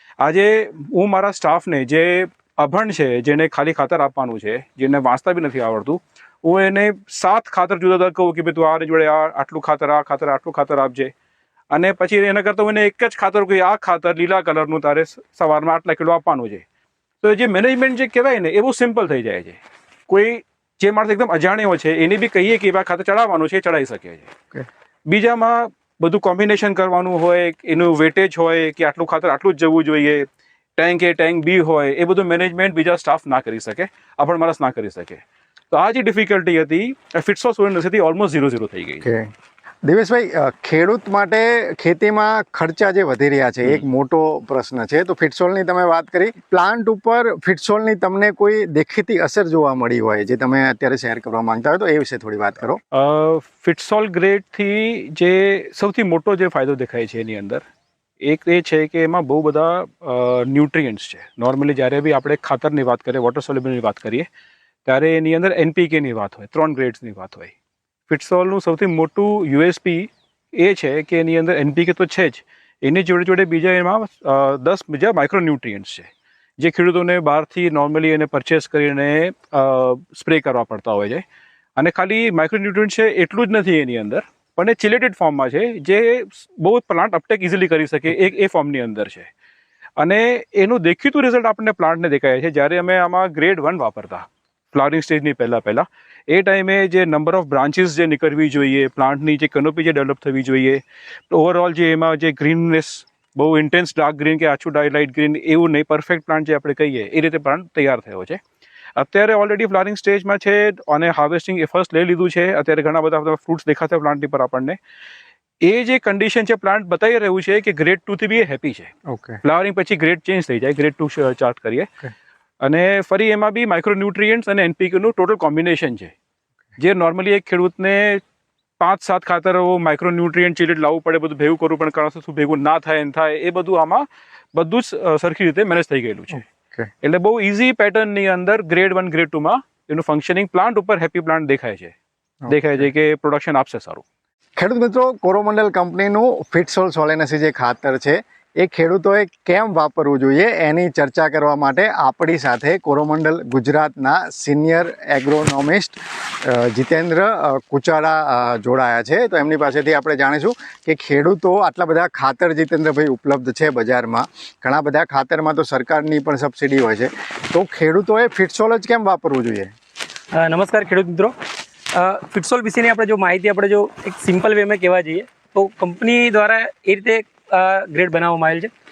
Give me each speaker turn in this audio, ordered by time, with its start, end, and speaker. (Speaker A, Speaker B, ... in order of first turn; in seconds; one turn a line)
Speaker A: 0.2-11.1
Speaker A: 11.7-16.6
Speaker A: 17.2-24.3
Speaker A: 25.1-39.1
Speaker B: 39.0-39.3
Speaker B: 39.9-52.8
Speaker A: 52.9-57.6
Speaker A: 58.2-64.3
Speaker A: 64.9-67.5
Speaker A: 68.1-81.2
Speaker A: 81.8-89.3
Speaker A: 90.0-108.4
Speaker A: 109.0-114.8
Speaker A: 115.6-121.9
Speaker B: 119.1-119.4
Speaker A: 122.6-126.1
Speaker A: 126.8-128.2
Speaker A: 128.8-136.4
Speaker B: 136.3-136.9
Speaker A: 137.0-141.9
Speaker B: 142.4-142.8
Speaker A: 142.5-144.0
Speaker B: 144.6-169.7
Speaker C: 170.3-171.3
Speaker C: 171.9-178.7